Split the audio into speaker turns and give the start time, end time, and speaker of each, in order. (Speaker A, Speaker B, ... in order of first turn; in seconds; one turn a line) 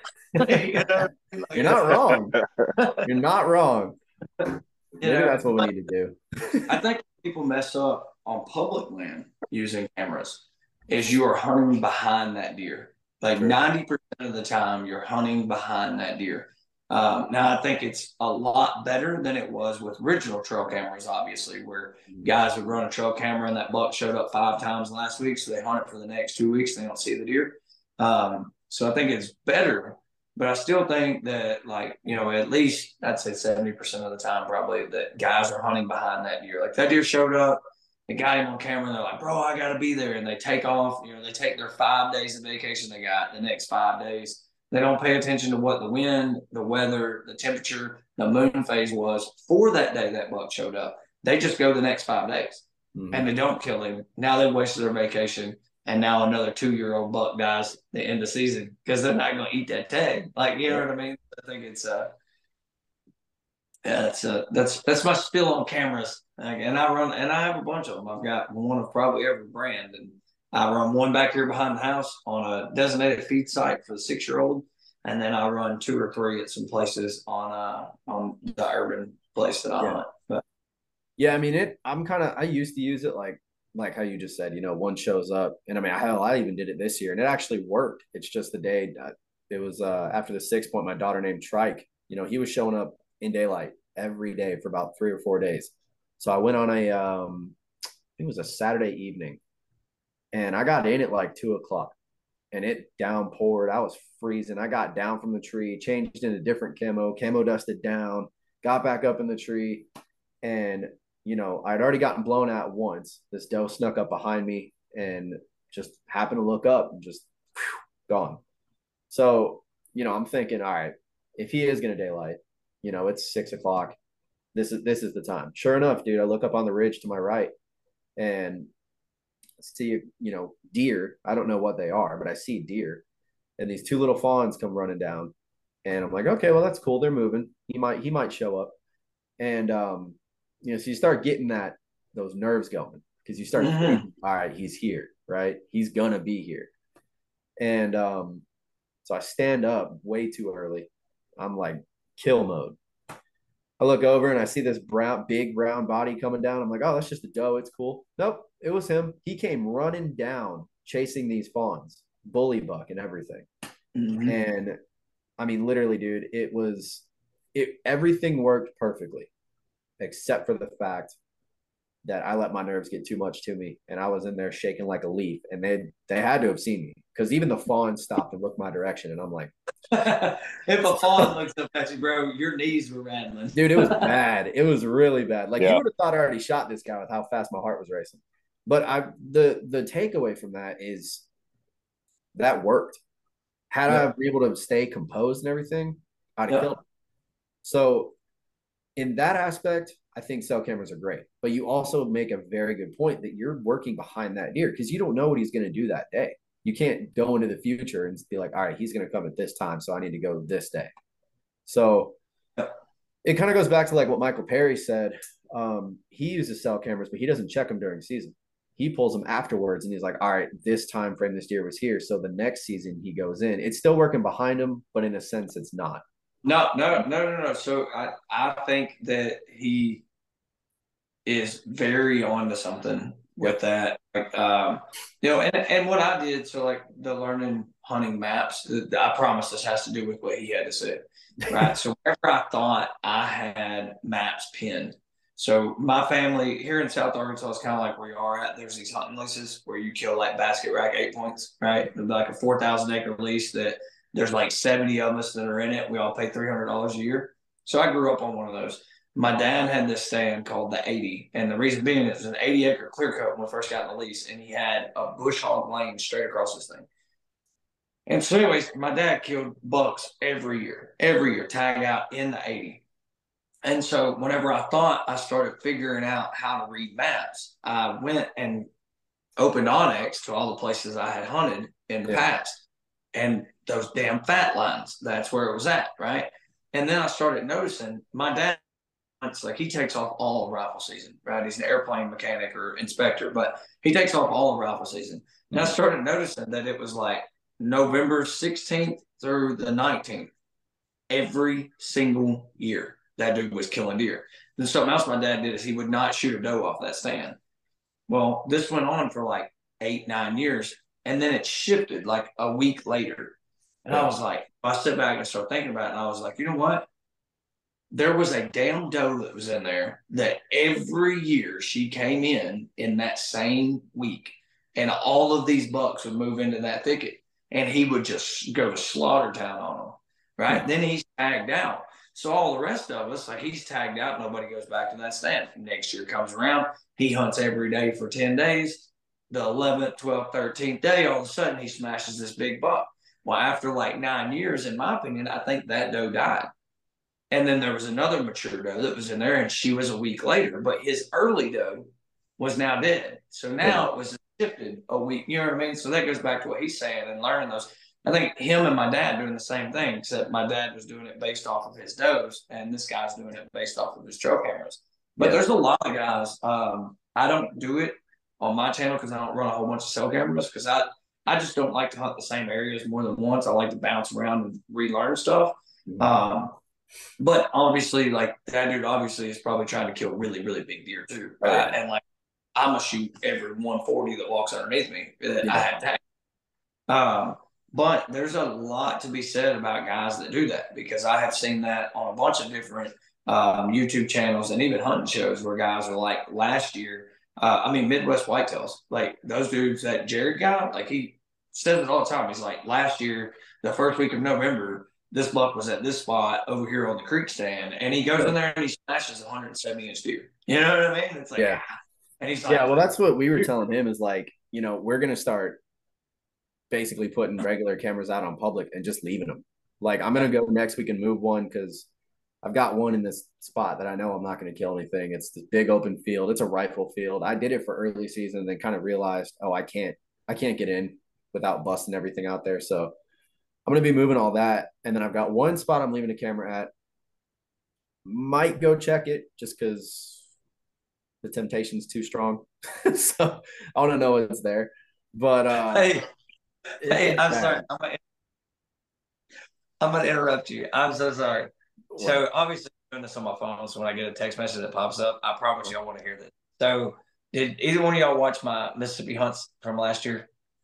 Speaker A: 0.3-3.1
Speaker B: 1.5-2.4
Speaker B: 3.0-4.0
Speaker A: 5.0-5.6
Speaker B: 5.0-6.8
Speaker A: 6.7-62.1
Speaker B: 52.9-53.3
Speaker A: 63.8-80.4
Speaker B: 81.2-97.5
Speaker B: 98.2-99.4
Speaker B: 100.3-101.9
Speaker B: 102.5-109.9
Speaker B: 110.4-118.4
Speaker B: 119.1-124.0
Speaker B: 124.5-127.5
Speaker B: 128.2-128.7
Speaker B: 129.6-133.0
Speaker B: 133.6-135.3
Speaker B: 135.8-138.7
Speaker B: 139.4-146.7
Speaker A: 143.6-144.1
Speaker B: 147.6-148.4
Speaker B: 149.0-152.8
Speaker B: 153.8-163.5
Speaker A: 163.9-164.4
Speaker B: 164.2-164.8
Speaker B: 165.4-169.3
Speaker B: 170.0-171.1
Speaker B: 172.0-179.5
Speaker A: 179.9-184.1
Speaker B: 183.5-191.2
Speaker B: 192.3-193.0
Speaker B: 193.7-196.8
Speaker B: 197.6-198.1
Speaker B: 198.9-210.9
Speaker B: 211.7-212.2
Speaker B: 213.2-226.0
Speaker A: 226.4-230.0
Speaker A: 231.2-266.9
Speaker A: 268.1-272.8
Speaker A: 273.6-278.7
Speaker A: 279.4-288.6
Speaker A: 289.2-300.3
Speaker A: 301.1-307.4
Speaker A: 308.1-316.9
Speaker A: 317.9-346.5
Speaker A: 347.3-376.6
Speaker B: 353.6-353.9
Speaker A: 377.2-382.0
Speaker A: 382.5-386.0
Speaker B: 385.4-385.8
Speaker A: 386.9-411.6
Speaker B: 411.4-411.6
Speaker A: 412.2-413.4
Speaker B: 412.4-415.6
Speaker B: 416.7-421.9
Speaker B: 422.4-432.9
Speaker B: 433.6-436.7
Speaker B: 438.0-440.2
Speaker B: 441.2-446.0
Speaker A: 445.7-446.1
Speaker B: 446.8-447.6
Speaker A: 446.8-448.0
Speaker A: 449.8-460.3
Speaker B: 451.9-452.2